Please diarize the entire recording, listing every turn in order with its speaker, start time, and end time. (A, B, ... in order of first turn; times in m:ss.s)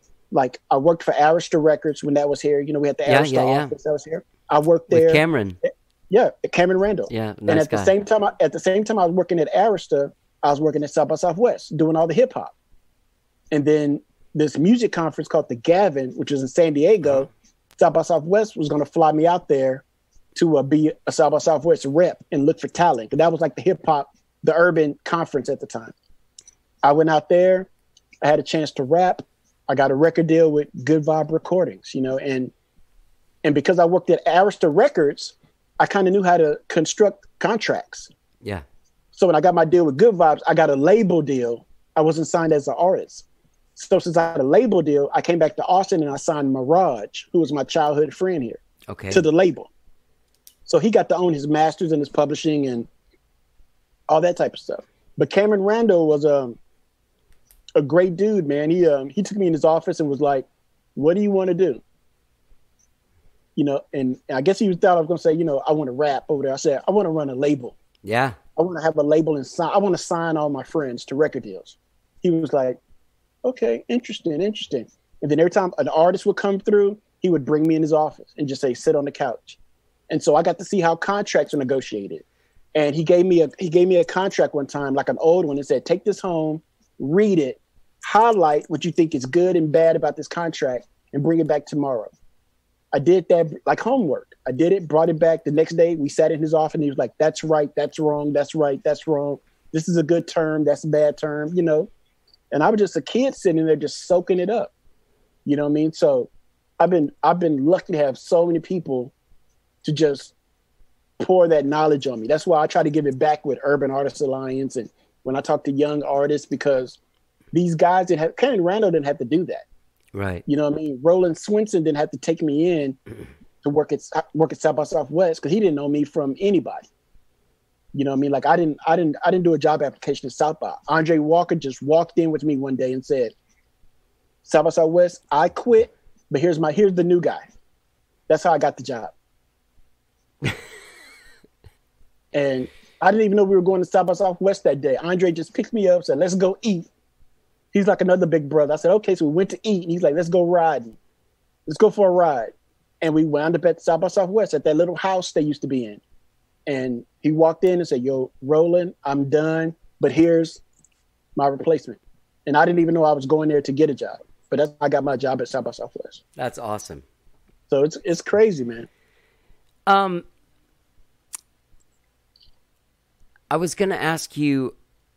0:00.3-0:12.5 A
0:03.1-0:03.7 B
0:04.9-0:05.6 B
0:07.1-0:07.9 B
0:13.5-0:19.8 A
0:20.4-0:25.9 A
0:26.8-0:27.7 A
0:28.2-0:32.5 A
0:33.4-0:38.1 A
0:39.2-0:43.2 A
0:43.8-0:48.6 A
0:48.9-0:49.2 B
0:49.1-0:49.7 A
0:50.7-0:52.9 A
0:54.1-0:56.6 A
0:57.8-1:01.8 A
1:03.6-1:07.8 A
1:08.0-1:08.4 B
1:08.6-1:12.8 A
1:13.4-1:19.6 A
1:20.1-1:22.2 A
1:22.8-1:32.1 A
1:32.9-1:41.9 A
1:42.5-1:44.7 A
1:45.5-1:46.3 A
1:46.8-1:49.1 A
1:49.8-1:50.3 A
1:51.2-1:57.0 A
1:57.5-1:59.6 A
2:00.1-2:00.4 B
2:00.5-2:03.0 A
2:03.6-2:06.9 A
2:07.9-2:13.3 A
2:14.4-2:17.4 A
2:18.3-2:19.1 A
2:22.3-2:26.9 A
2:27.7-2:31.0 A
2:31.7-2:36.0 A
2:36.7-2:40.6 A
2:41.4-2:46.2 A
2:46.4-2:47.0 B
2:47.7-2:48.9 A
2:49.9-2:50.2 B
2:53.5-2:54.8 B